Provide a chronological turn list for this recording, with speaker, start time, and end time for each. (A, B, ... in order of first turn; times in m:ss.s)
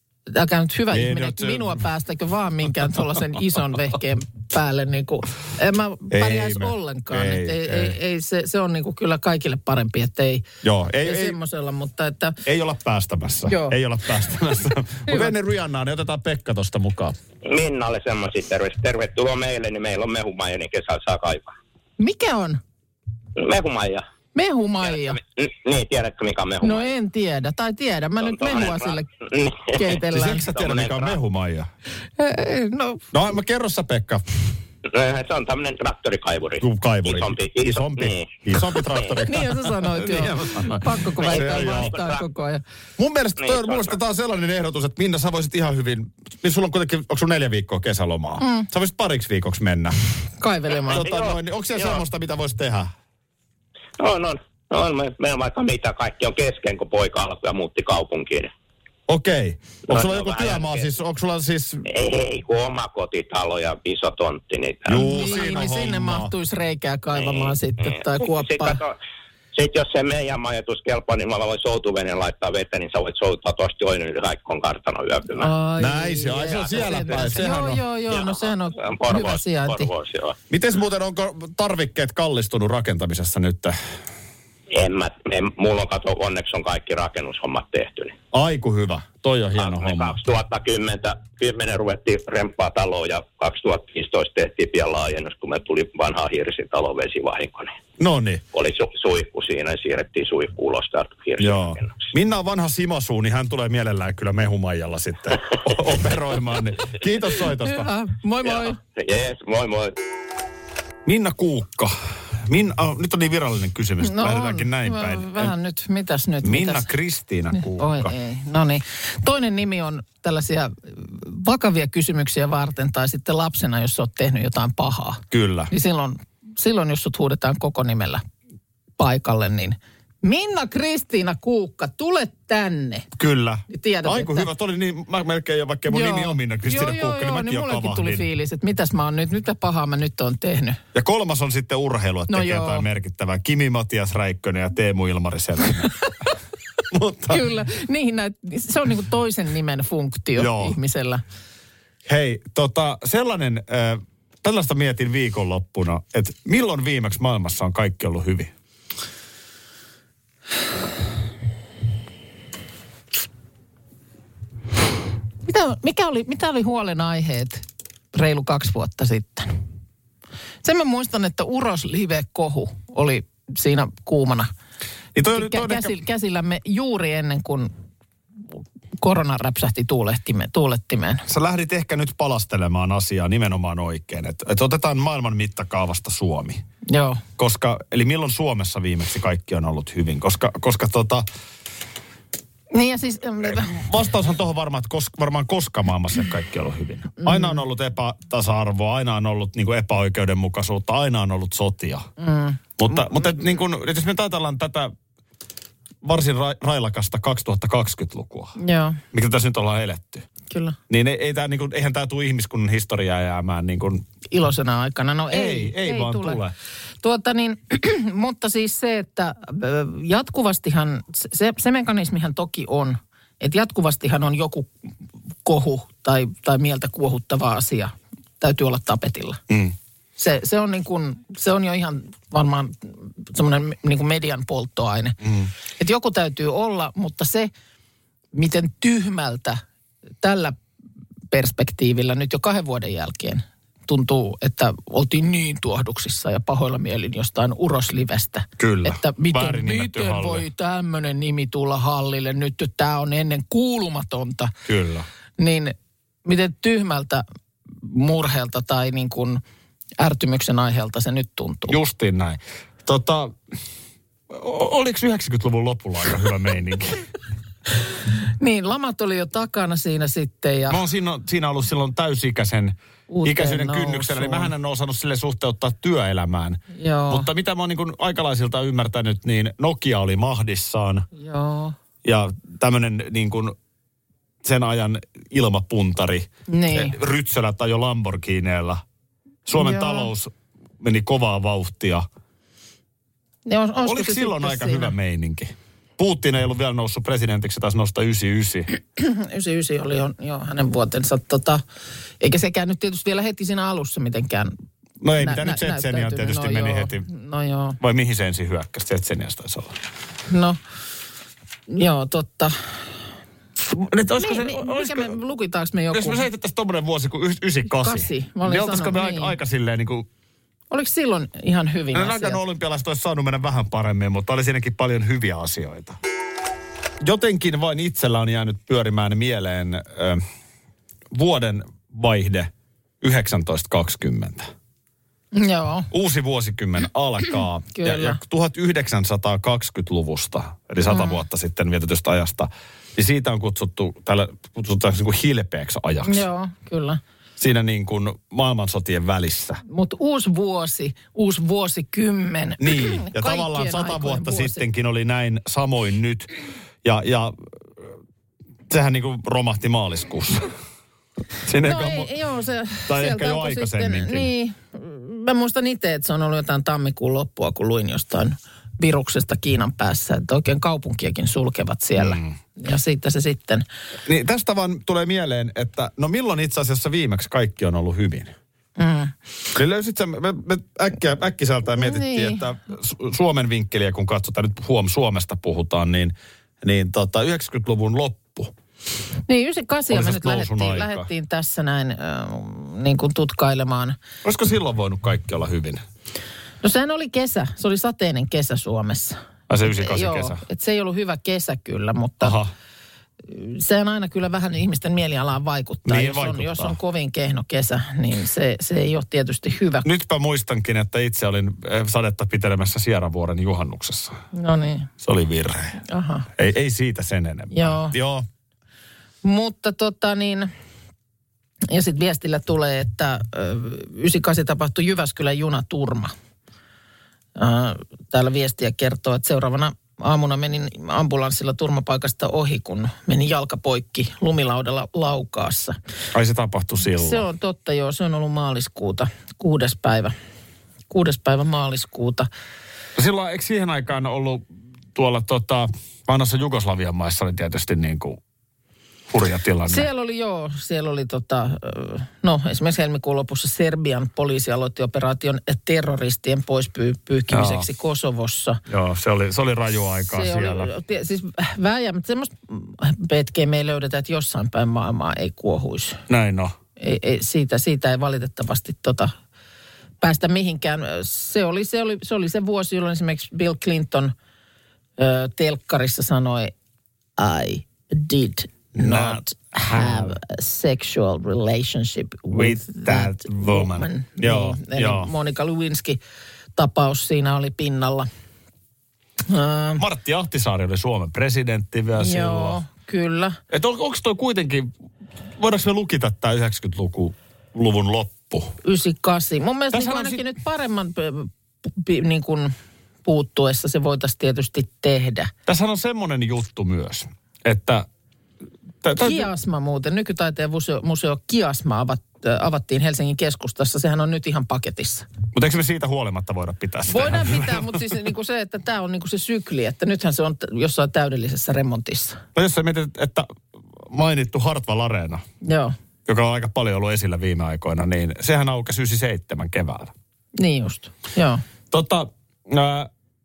0:00.3-0:10.4 A
0:00.9-0:01.8 B
0:06.1-0:07.9 B
0:10.6-0:11.4 B
0:11.0-0:12.4 A
0:12.4-0:17.2 B
0:13.5-0:13.8 A
0:17.5-0:21.5 C
0:22.0-0:22.6 A
0:23.4-0:24.0 C
0:24.3-0:25.2 A
0:24.8-0:26.9 C
0:26.6-0:29.1 A
0:28.2-0:31.2 C
0:29.7-0:30.5 A
0:30.0-0:31.7 B
0:32.2-0:33.0 A
0:33.1-0:34.2 B
0:34.9-0:39.2 C
0:36.6-0:42.1 B
0:39.2-0:42.6 A
0:41.2-0:42.2 C
0:43.0-0:50.0 B
0:43.4-0:44.0 C
0:48.4-0:48.7 A
0:50.4-0:51.1 A
0:50.9-0:52.9 B
0:50.9-0:52.0 C
0:54.0-0:58.5 C
0:59.1-1:01.8 B
0:59.9-1:00.9 C
1:01.8-1:05.2 C
1:04.9-1:06.3 B
1:04.9-1:08.8 A
1:07.1-1:08.9 C
1:09.5-1:15.5 C
1:15.4-1:19.9 A
1:15.8-1:17.8 B
1:16.8-1:17.3 C
1:18.1-1:20.4 C
1:20.5-1:23.8 B
1:24.7-1:28.1 C
1:28.3-1:30.2 B
1:29.6-1:37.8 C
1:38.0-1:38.4 B
1:38.5-1:42.1 C
1:41.4-1:47.9 B
1:47.6-1:48.8 A
1:48.4-1:50.0 C
1:51.0-1:55.5 B
1:54.0-1:56.9 A
1:56.4-1:58.1 B
1:57.7-2:08.2 A
2:05.3-2:05.7 B
2:09.0-2:13.0 A
2:13.2-2:18.3 B
2:13.7-2:14.5 A
2:15.9-2:20.8 A
2:20.9-2:25.9 B
2:22.3-2:22.8 A
2:26.9-2:27.5 B
2:27.3-2:31.2 A
2:30.4-2:30.8 B
2:32.0-2:38.5 B
2:45.4-2:49.5 A
2:50.6-2:54.5 A
2:55.1-2:55.9 B
2:55.3-2:57.7 A
2:59.0-3:01.2 A
3:01.3-3:06.6 B
3:06.9-3:07.2 A
3:07.4-3:11.2 B
3:12.7-3:13.8 A
3:13.4-3:22.1 B
3:17.2-3:17.6 A
3:22.2-3:23.2 A
3:22.8-3:24.9 B
3:26.0-3:28.5 B
3:28.6-3:29.0 A
3:29.1-3:30.3 B
3:30.5-3:30.8 A
3:30.9-3:34.0 B
3:34.3-3:36.4 A
3:35.3-3:36.5 B
3:37.0-3:44.7 A
3:45.4-3:49.4 A
3:49.5-3:49.8 B
3:50.2-3:55.2 A
3:55.2-3:55.5 B
3:55.8-3:57.5 A
3:58.3-3:59.6 A
4:00.2-4:00.6 A
4:01.3-4:14.5 A
4:08.6-4:10.5 B
4:14.6-4:15.0 B
4:15.4-4:17.2 A
4:17.8-4:19.4 A
4:20.0-4:21.8 A
4:21.7-4:23.4 B
4:24.3-4:27.1 B
4:28.4-4:30.8 A
4:30.7-4:41.1 B
4:33.1-4:34.5 A
4:36.7-4:37.3 A
4:41.2-4:41.7 A
4:42.0-4:43.5 B
4:44.4-4:48.8 B
4:46.5-4:46.9 A
4:49.4-4:52.0 B
4:49.5-4:50.1 A
4:53.4-4:54.9 A
4:53.8-4:58.7 B
4:58.9-5:01.6 A
5:02.2-5:04.5 A
5:05.0-5:07.1 B
5:05.2-5:07.8 A
5:07.8-5:09.7 B
5:10.3-5:10.6 A
5:11.7-5:12.9 A
5:13.7-5:15.2 B
5:14.2-5:16.3 A
5:15.9-5:20.1 B
5:17.7-5:19.3 A
5:20.7-5:22.4 A
5:21.9-5:26.0 B
5:27.0-5:30.2 B
5:31.1-5:34.5 B
5:35.3-5:35.9 A
5:35.9-5:46.3 B
5:37.7-5:38.2 A
5:40.9-5:41.2 A
5:46.0-5:47.0 A
5:47.4-5:49.6 B
5:49.7-5:54.6 A
5:52.6-5:57.4 B
5:58.7-6:00.5 B
6:01.4-6:02.1 B
6:01.6-6:13.6 A
6:02.8-6:04.3 B
6:12.0-6:12.4 B
6:14.0-6:18.3 B
6:18.8-6:19.1 A
6:19.5-6:28.5 B
6:21.8-6:22.4 A
6:29.3-6:34.0 A
6:29.9-6:31.1 B
6:34.2-6:35.8 B
6:36.6-6:42.4 A
6:39.5-6:40.4 B
6:42.2-6:42.5 B
6:43.2-6:49.9 A
6:45.8-6:46.8 B
6:49.8-6:54.2 B
6:54.3-6:54.9 A
6:55.0-6:55.8 B
6:55.9-6:56.3 A
6:56.4-6:58.2 B
6:57.5-6:58.0 A
6:59.2-7:00.5 A
7:01.7-7:06.1 A
7:07.4-7:15.8 A
7:16.1-7:17.2 B
7:16.9-7:20.1 A
7:20.9-7:22.3 A
7:23.0-7:28.2 B
7:29.1-7:29.9 B
7:29.6-7:38.6 A
7:37.3-7:37.6 B
7:38.7-7:40.7 B
7:40.1-7:46.0 A
7:46.1-7:46.5 B
7:46.8-7:49.1 A
7:50.0-7:54.1 A
7:55.0-7:56.5 A
7:57.2-8:06.0 A
7:58.8-8:00.2 B
8:02.3-8:05.1 B
8:06.6-8:08.1 A
8:09.3-8:09.8 A
8:09.8-8:12.6 B
8:12.0-8:13.4 A
8:13.5-8:14.7 B
8:15.3-8:18.6 B
8:18.6-8:22.5 A
8:19.7-8:20.2 B
8:23.0-8:25.3 A
8:25.4-8:27.9 B
8:28.8-8:29.3 B
8:29.0-8:35.0 A
8:35.3-8:37.9 B
8:36.9-8:42.2 A
8:42.3-8:45.2 B
8:45.4-8:45.7 A
8:46.0-8:49.9 B
8:50.4-8:51.4 A
8:51.7-8:52.9 B